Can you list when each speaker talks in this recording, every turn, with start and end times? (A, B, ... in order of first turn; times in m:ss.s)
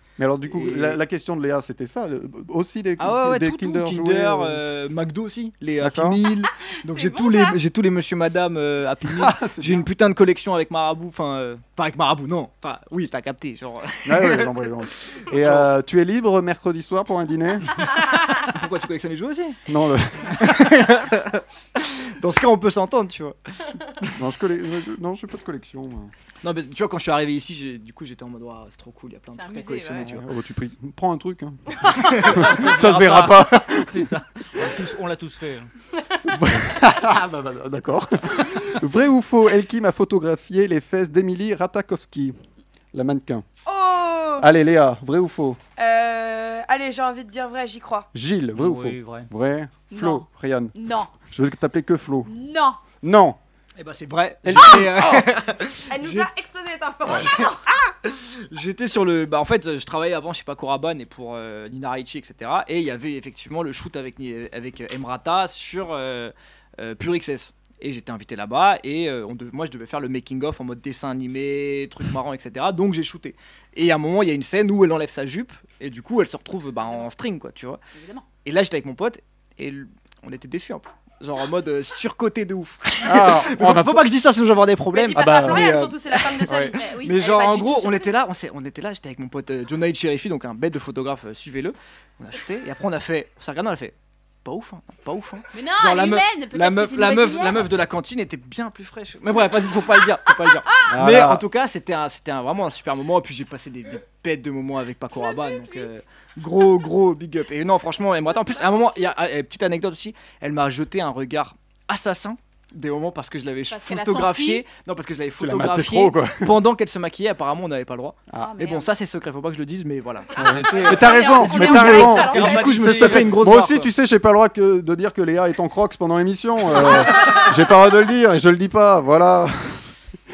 0:00.2-0:04.6 A
0:00.4-0:01.0 B
0:03.0-0:15.7 B
0:05.8-0:06.2 A
0:06.8-0:07.5 C
0:09.1-0:09.9 A
0:14.0-0:17.7 A
0:17.8-0:19.6 B
0:19.7-0:20.4 A
0:20.3-0:24.2 B
0:24.1-0:26.1 A
0:26.4-0:30.3 B
0:29.3-0:30.1 D
0:30.0-0:34.1 A
0:31.8-0:32.8 B
0:32.0-0:35.7 E
0:36.3-0:42.3 A
0:42.9-0:43.4 A
0:43.6-0:44.5 C
0:44.4-0:45.6 A
0:45.8-0:48.1 C
0:48.1-0:52.3 A
0:48.6-0:49.3 E
0:49.9-0:51.1 D
0:52.2-0:52.8 D
0:53.0-0:53.4 A
0:53.8-0:56.3 B
0:54.4-0:55.3 A
0:55.9-0:57.6 C
0:57.0-0:57.3 A
0:57.0-1:17.8 B
1:17.9-1:18.2 D
1:18.4-2:03.9 B
1:23.0-1:24.1 A
1:24.9-1:26.8 C
1:25.2-1:25.8 A
1:26.6-1:28.1 D
1:35.5-1:37.6 D
1:40.9-1:41.4 A
1:45.2-1:45.9 D
1:53.7-1:54.6 D
1:55.4-1:56.6 A
1:58.3-1:58.5 A
1:58.4-1:58.9 D
2:00.4-2:09.8 A
2:00.4-2:02.6 C
2:00.6-2:02.6 D
2:02.4-2:03.4 E